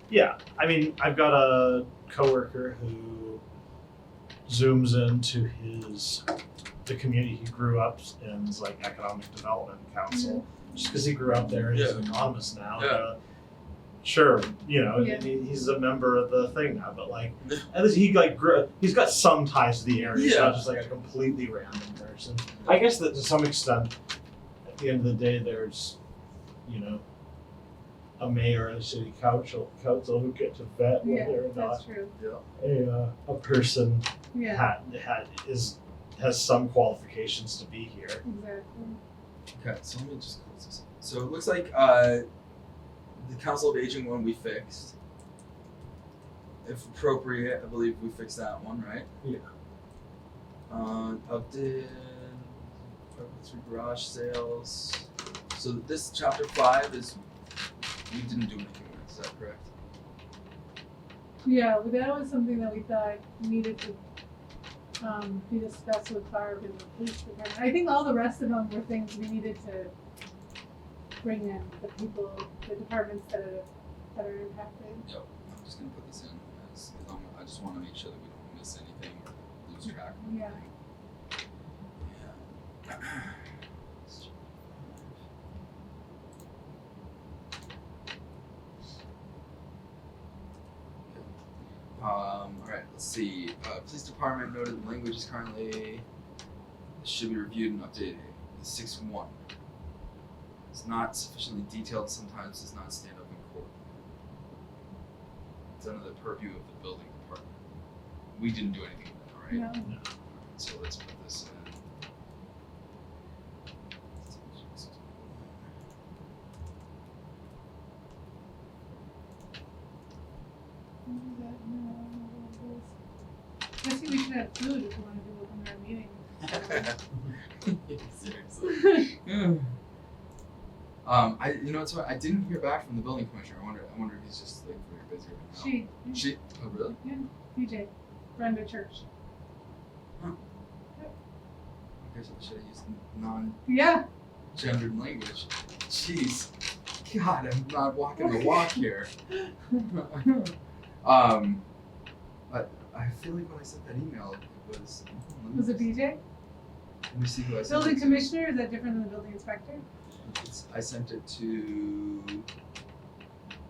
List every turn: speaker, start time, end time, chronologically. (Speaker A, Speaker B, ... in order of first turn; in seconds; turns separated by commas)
Speaker A: 0.1-3.4, Speaker A: 4.5-6.2, Speaker A: 6.8-13.2, Speaker B: 10.1-10.4, Speaker C: 11.7-12.1, Speaker C: 12.8-13.0, Speaker A: 14.0-23.9, Speaker B: 14.9-15.4, Speaker C: 20.1-20.7, Speaker A: 24.7-26.0, Speaker A: 26.6-27.0, Speaker A: 28.2-31.8, Speaker B: 31.0-32.1, Speaker C: 32.2-32.5, Speaker A: 32.6-38.2, Speaker B: 34.3-34.7, Speaker B: 38.2-39.0, Speaker C: 39.5-42.3, Speaker C: 43.2-44.9, Speaker C: 46.6-49.1, Speaker A: 49.2-49.5, Speaker C: 50.7-57.2, Speaker C: 58.1-59.7, Speaker B: 61.4-64.0, Speaker B: 65.0-69.9, Speaker B: 71.2-75.0, Speaker C: 75.0-80.7, Speaker B: 80.2-80.6, Speaker C: 82.0-83.5, Speaker C: 84.1-85.2, Speaker C: 92.0-96.0, Speaker C: 97.0-99.3, Speaker C: 100.7-103.8, Speaker C: 105.8-107.5, Speaker C: 108.3-109.7, Speaker B: 109.5-109.9, Speaker C: 110.3-111.8, Speaker C: 114.2-115.7, Speaker B: 121.1-122.9, Speaker B: 123.8-126.9, Speaker C: 126.5-127.0, Speaker C: 127.6-129.7, Speaker B: 128.6-129.1, Speaker C: 131.1-137.0, Speaker B: 135.5-136.3, Speaker B: 137.0-139.0, Speaker C: 142.0-143.6, Speaker B: 143.7-144.1, Speaker C: 144.6-146.5, Speaker C: 147.0-149.1, Speaker B: 148.2-148.7, Speaker C: 149.7-151.6, Speaker C: 152.5-156.0, Speaker B: 155.5-156.2, Speaker C: 157.1-158.4, Speaker B: 157.7-159.8, Speaker C: 160.2-162.4